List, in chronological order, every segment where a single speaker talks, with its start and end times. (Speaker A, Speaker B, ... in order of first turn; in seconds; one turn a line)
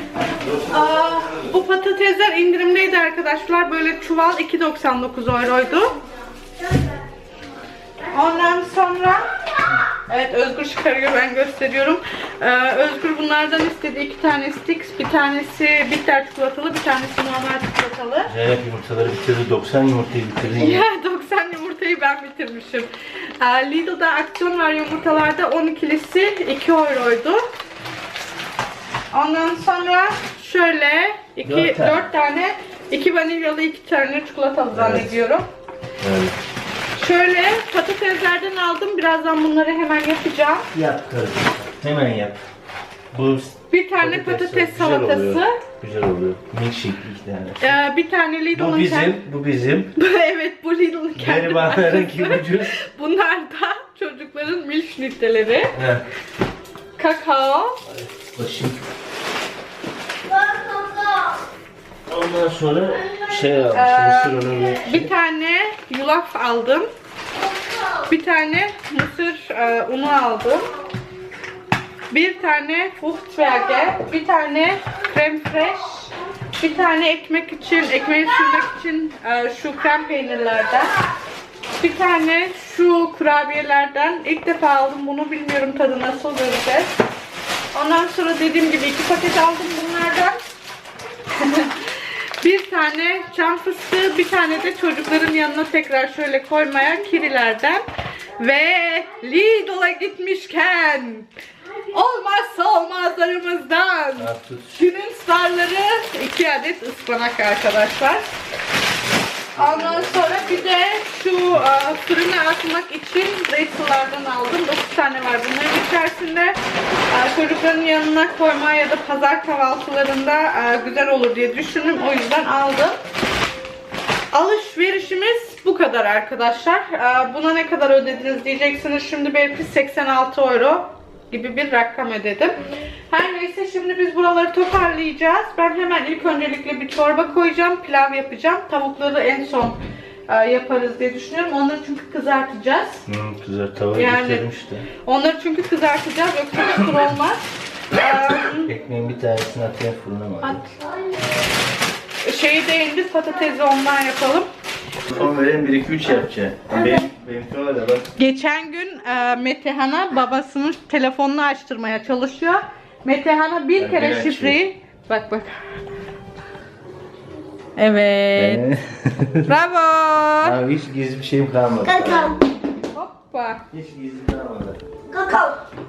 Speaker A: 0.4-1.5
Speaker B: 0.6-6.0
Speaker B: 8.1-9.3
Speaker B: 9.9-18.3
Speaker A: 18.3-20.8
Speaker B: 20.6-27.4
Speaker B: 29.1-35.5
Speaker A: 31.4-32.0
Speaker A: 34.7-35.1
Speaker A: 36.0-36.3
Speaker B: 37.0-40.7
Speaker A: 40.7-42.4
Speaker A: 43.1-47.7
Speaker B: 43.7-45.6
Speaker B: 47.6-49.2
Speaker A: 48.5-49.9
Speaker B: 50.0-55.8
Speaker A: 51.2-52.8
Speaker A: 55.7-56.0
Speaker B: 57.0-57.8
Speaker A: 57.9-58.9
Speaker C: 60.3-61.4
Speaker A: 62.1-65.1
Speaker B: 63.7-66.9
Speaker C: 67.5-67.9
Speaker B: 68.1-70.7
Speaker B: 72.1-80.9
Speaker B: 81.8-87.0
Speaker B: 87.7-90.4
Speaker B: 91.3-97.8
Speaker B: 98.4-101.3
Speaker B: 101.9-108.2
Speaker A: 104.2-104.8
Speaker A: 109.5-110.7
Speaker B: 109.5-116.6
Speaker B: 117.1-123.0
Speaker B: 124.3-143.1
Speaker A: 143.1-144.9
Speaker B: 143.9-144.4
Speaker B: 145.0-147.4
Speaker B: 147.9-148.7
Speaker A: 148.7-150.6
Speaker B: 150.4-150.7
Speaker B: 152.2-154.5
Speaker A: 155.1-158.1
Speaker B: 156.7-157.0
Speaker B: 158.2-165.5
Speaker A: 163.8-164.6
Speaker B: 167.8-168.6
Speaker A: 168.4-169.6
Speaker B: 169.5-170.6
Speaker A: 170.4-172.5
Speaker C: 171.8-172.4
Speaker B: 172.9-173.6
Speaker A: 173.7-174.8
Speaker C: 175.1-175.6